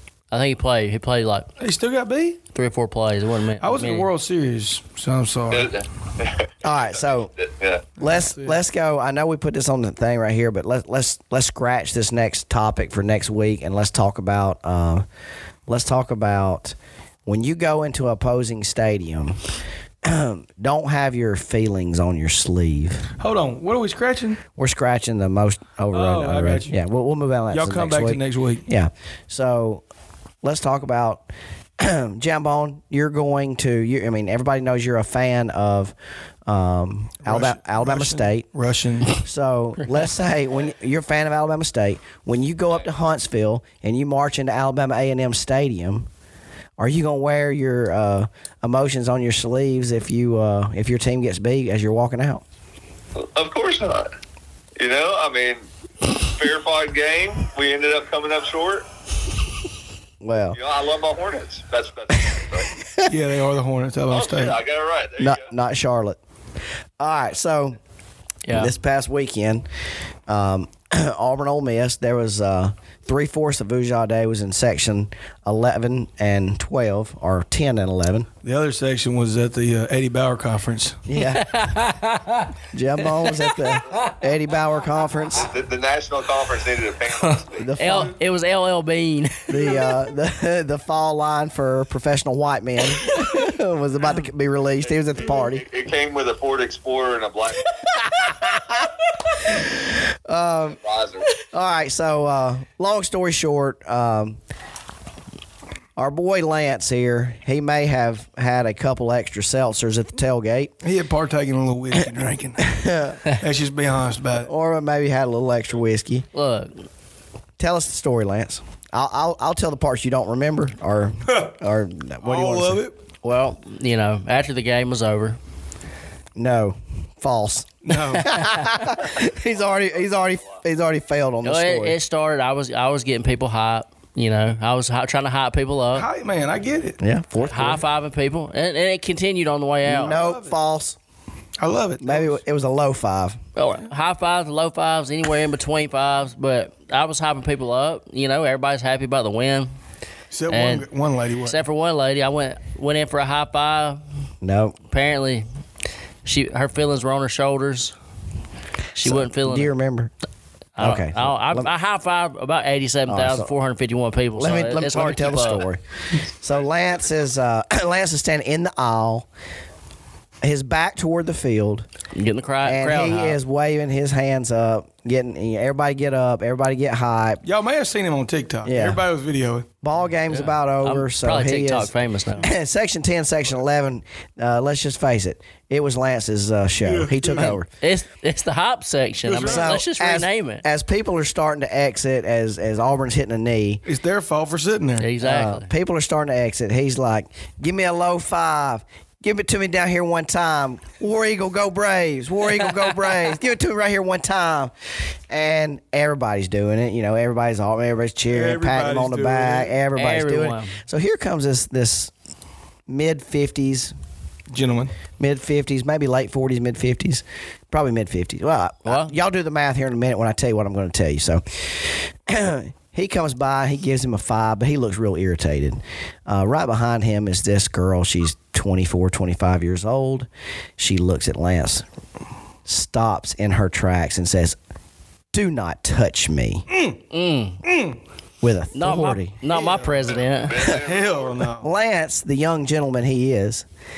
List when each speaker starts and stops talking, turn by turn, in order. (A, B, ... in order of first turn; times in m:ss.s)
0:00.3-0:01.5 A
0:01.6-0:02.4 B
0:02.5-0:04.1 A
0:03.6-0:05.8 B
0:05.5-0:07.9 C
0:06.6-0:07.3 D
0:08.0-0:08.6 B
0:08.0-0:15.1 D
0:15.7-0:19.4 D
0:20.0-0:23.1 D
0:23.2-0:24.4 B
0:24.6-0:29.8 D
0:25.9-0:26.8 B
0:27.5-0:28.6 B
0:30.4-0:31.3 D
0:31.8-0:36.0 D
0:36.5-0:38.5 D
0:37.2-0:39.2 B
0:39.1-0:46.1 D
0:46.8-0:52.4 D
0:53.2-0:54.1 C
0:54.8-0:55.6 C
0:56.2-0:58.9 C
1:00.2-1:00.6 D
1:00.5-1:02.7 C
1:03.0-1:04.6 B
1:04.1-1:05.4 C
1:05.2-1:06.2 D
1:07.0-1:07.8 D
1:08.5-1:08.7 A
1:08.5-1:09.7 D
1:10.3-1:18.3 D
1:18.4-1:21.0 B
1:21.1-1:21.5 D
1:21.2-1:22.5 A
1:22.7-1:25.5 D
1:23.2-1:23.5 A
1:25.4-1:27.7 C
1:27.2-1:29.9 A
1:27.6-1:28.2 D
1:29.5-1:35.7 D
1:35.2-1:37.8 C
1:38.0-1:38.9 D
1:39.5-1:40.8 D
1:40.7-1:41.3 C
1:41.4-1:44.4 D
1:46.0-1:50.7 D
1:50.8-1:54.5 B
1:52.7-1:53.2 D
1:54.4-1:56.2 D
1:56.3-1:56.7 A
1:57.6-2:02.8 D
2:01.3-2:01.5 B
2:02.2-2:03.0 B
2:03.2-2:05.4 A
2:06.4-2:12.0 D
2:07.8-2:08.3 B
2:09.1-2:10.6 C
2:11.4-2:16.1 A
2:15.9-2:17.0 B
2:17.0-2:17.8 D
2:17.4-2:20.2 A
2:19.9-2:21.0 D
2:19.9-2:20.6 B
2:21.6-2:22.4 B
2:22.0-2:23.4 D
2:23.6-2:29.7 A
2:30.3-2:31.6 B
2:30.5-2:30.9 A
2:31.5-2:34.0 A
2:34.4-2:34.8 D
2:34.9-2:35.5 A
2:36.2-2:38.0 A
2:39.0-2:39.7 A
2:39.0-2:40.1 D
2:40.8-2:45.7 A
2:40.8-2:41.7 D
2:43.1-2:43.5 D
2:44.4-2:45.8 D
2:46.3-2:49.3 D
2:50.4-2:51.9 D
2:52.1-2:53.4 A
2:52.6-2:57.4 D
2:57.4-2:59.7 B
2:58.6-2:59.0 D
2:59.8-3:07.7 D
3:00.3-3:02.5 A
3:06.8-3:07.6 B
3:07.4-3:10.6 A
3:09.2-3:09.8 B
3:09.4-3:13.8 D
3:13.9-3:15.1 B
3:15.0-3:15.7 A
3:15.2-3:32.1 D
3:28.3-3:29.8 B
3:30.0-3:30.8 A
3:32.9-3:33.9 D
3:34.5-3:34.9 B
3:35.2-3:51.9 D
3:38.9-3:39.1 A
3:52.6-3:54.6 D
3:55.3-3:56.7 D
3:56.7-3:57.0 B
3:57.1-3:57.6 A
3:57.6-3:58.0 B
3:58.4-3:59.4 D
3:58.7-4:00.6 A
3:59.5-4:01.7 B
4:00.4-4:01.4 C
4:01.6-4:03.7 D